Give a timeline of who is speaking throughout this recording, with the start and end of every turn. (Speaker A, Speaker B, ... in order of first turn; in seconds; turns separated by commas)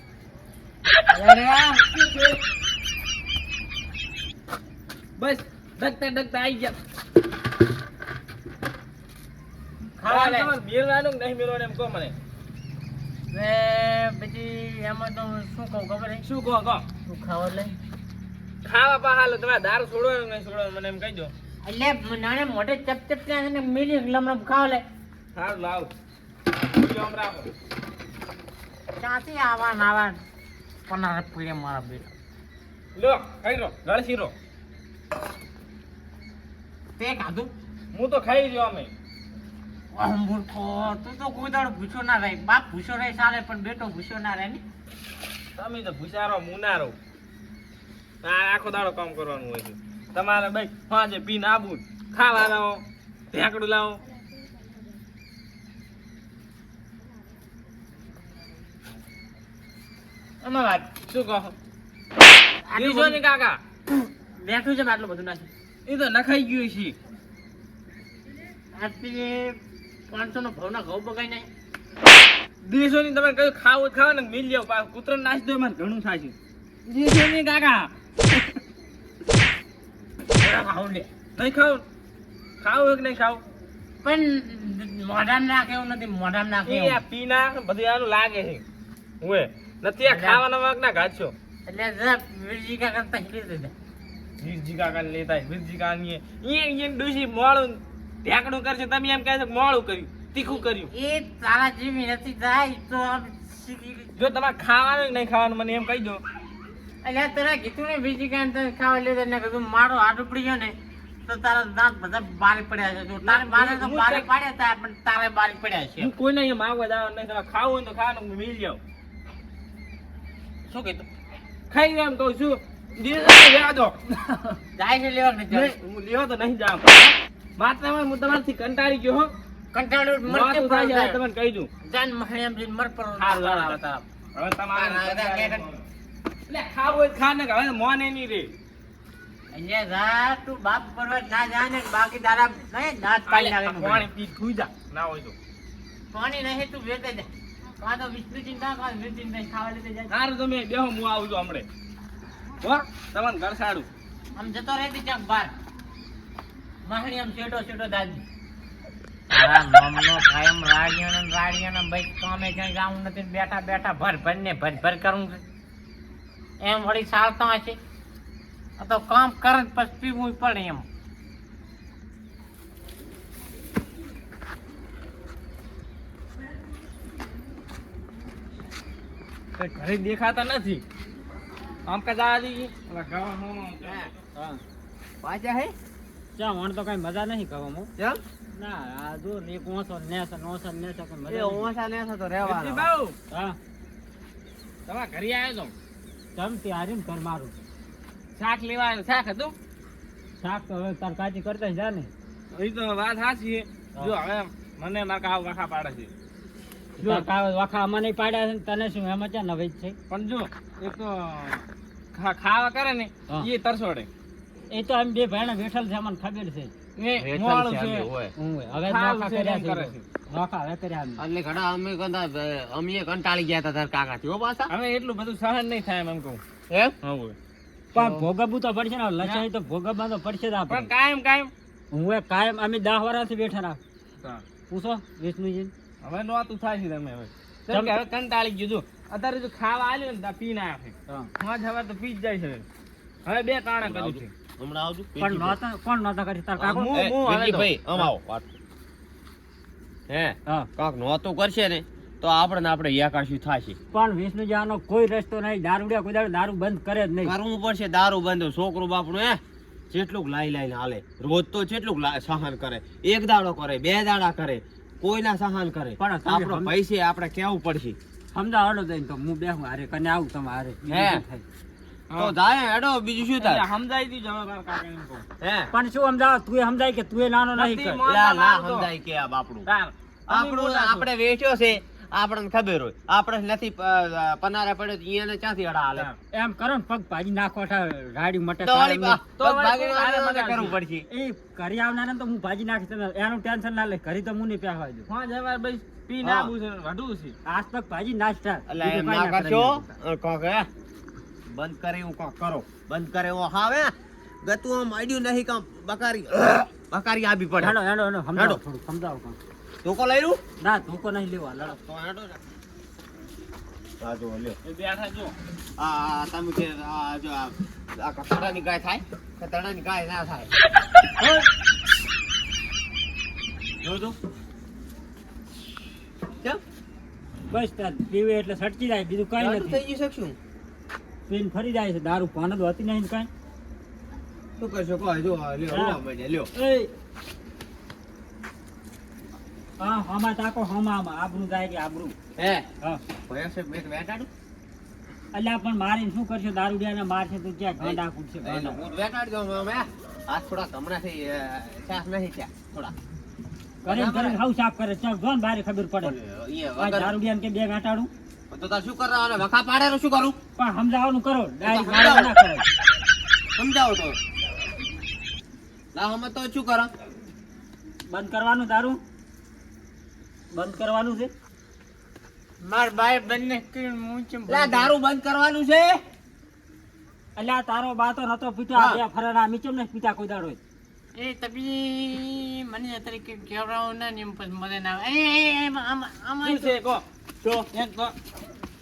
Speaker A: 1.1-1.9, Speaker B: 1.9-2.4, Speaker B: 5.2-6.8, Speaker A: 10.0-10.5, Speaker B: 10.1-12.1, Speaker A: 13.3-16.2, Speaker B: 16.2-16.8, Speaker A: 17.1-17.8, Speaker B: 18.6-21.3, Speaker A: 21.6-24.8, Speaker B: 25.4-25.9, Speaker B: 26.7-27.5, Speaker A: 29.0-30.2, Speaker A: 30.9-32.1, Speaker B: 33.0-34.3, Speaker A: 37.0-37.5, Speaker B: 37.9-38.9, Speaker A: 39.9-44.6, Speaker B: 45.6-47.0, Speaker B: 48.2-54.0, Speaker A: 60.4-60.9, Speaker B: 61.1-61.5, Speaker A: 62.7-63.2, Speaker B: 62.7-63.6, Speaker A: 63.9-65.5, Speaker B: 65.9-67.0, Speaker A: 68.7-69.6, Speaker A: 70.1-71.5, Speaker B: 72.6-76.3, Speaker B: 76.9-78.5, Speaker A: 80.4-81.1, Speaker B: 81.3-81.8, Speaker B: 82.6-83.4, Speaker A: 84.0-87.0, Speaker B: 86.7-88.6, Speaker B: 89.2-91.3, Speaker A: 90.0-90.4, Speaker A: 91.7-93.7, Speaker B: 94.4-100.9, Speaker A: 100.9-104.1, Speaker B: 104.2-106.2, Speaker A: 107.0-116.1, Speaker B: 113.2-114.3, Speaker B: 116.0-118.8, Speaker A: 120.7-121.1, Speaker B: 121.7-124.6, Speaker A: 124.8-125.7, Speaker B: 125.5-129.3, Speaker A: 129.7-131.2, Speaker B: 130.3-131.7, Speaker A: 131.8-134.1, Speaker B: 133.1-133.8, Speaker B: 134.3-135.8, Speaker A: 134.7-135.6, Speaker B: 136.5-138.5, Speaker A: 139.5-144.1, Speaker B: 143.3-145.3, Speaker A: 146.1-147.3, Speaker A: 147.8-150.1, Speaker B: 150.1-151.7, Speaker B: 152.6-153.9, Speaker A: 154.4-155.5, Speaker A: 156.9-158.2, Speaker A: 159.3-165.4, Speaker A: 166.6-167.8, Speaker A: 168.8-170.9, Speaker B: 179.6-180.8, Speaker B: 181.9-184.2, Speaker C: 183.8-184.1, Speaker D: 184.3-184.6, Speaker C: 185.2-185.7, Speaker D: 186.4-187.9, Speaker D: 188.5-191.7, Speaker C: 191.3-192.9, Speaker B: 192.4-193.2, Speaker D: 193.3-193.6, Speaker B: 194.9-195.7, Speaker D: 196.3-197.5, Speaker B: 198.4-199.6, Speaker D: 200.4-202.1, Speaker B: 202.5-206.1, Speaker D: 207.0-210.0, Speaker B: 207.0-207.3, Speaker B: 210.1-214.1, Speaker D: 214.7-216.7, Speaker B: 217.0-218.1, Speaker C: 217.2-218.3, Speaker D: 218.4-221.2, Speaker B: 218.8-220.0, Speaker C: 221.2-224.7, Speaker B: 224.7-226.4, Speaker C: 226.7-227.0, Speaker B: 227.0-227.4, Speaker D: 227.9-230.9, Speaker B: 230.7-231.5, Speaker D: 231.9-233.8, Speaker D: 234.7-235.7, Speaker B: 236.0-242.7, Speaker B: 243.3-244.3, Speaker C: 243.8-245.6, Speaker D: 245.2-246.9, Speaker B: 246.6-248.0, Speaker C: 246.9-248.5, Speaker C: 250.1-253.8, Speaker D: 253.9-257.4, Speaker C: 257.2-268.0, Speaker D: 266.0-266.7, Speaker D: 268.3-271.4, Speaker C: 270.9-271.2, Speaker B: 272.1-272.4, Speaker C: 272.2-273.6, Speaker B: 273.4-275.3, Speaker C: 275.4-275.7, Speaker D: 275.7-278.0, Speaker B: 277.5-278.9, Speaker C: 278.0-279.7, Speaker B: 279.7-281.1, Speaker C: 280.3-286.1, Speaker D: 286.3-289.2, Speaker C: 288.6-291.1, Speaker B: 289.4-290.8, Speaker D: 291.1-295.1, Speaker B: 295.1-297.4, Speaker C: 296.2-296.5, Speaker D: 297.5-299.9, Speaker C: 298.7-300.7, Speaker C: 301.5-307.8, Speaker D: 307.6-309.4, Speaker C: 308.4-308.6, Speaker C: 309.8-310.4, Speaker D: 310.6-311.8, Speaker C: 311.6-312.4, Speaker C: 314.0-314.6, Speaker B: 314.6-315.4, Speaker C: 315.8-320.5, Speaker D: 321.2-321.5, Speaker C: 323.8-324.1, Speaker D: 327.5-329.8, Speaker C: 329.4-330.4, Speaker D: 331.3-333.3, Speaker C: 334.6-336.5, Speaker D: 335.7-336.0, Speaker D: 336.6-336.9, Speaker D: 339.8-342.1, Speaker C: 342.4-342.7, Speaker C: 343.3-344.3, Speaker D: 345.3-348.8, Speaker C: 347.8-352.9, Speaker D: 353.8-356.1, Speaker C: 353.9-354.4, Speaker C: 356.0-357.1, Speaker D: 356.8-358.1, Speaker C: 358.5-360.4, Speaker D: 360.6-362.7, Speaker C: 361.6-362.3, Speaker C: 363.6-364.2, Speaker C: 365.9-366.9, Speaker D: 368.1-369.0, Speaker D: 370.5-371.3, Speaker A: 372.6-374.9, Speaker C: 374.5-376.0, Speaker D: 377.4-380.6, Speaker C: 378.8-379.0, Speaker A: 381.1-386.7, Speaker B: 386.4-388.1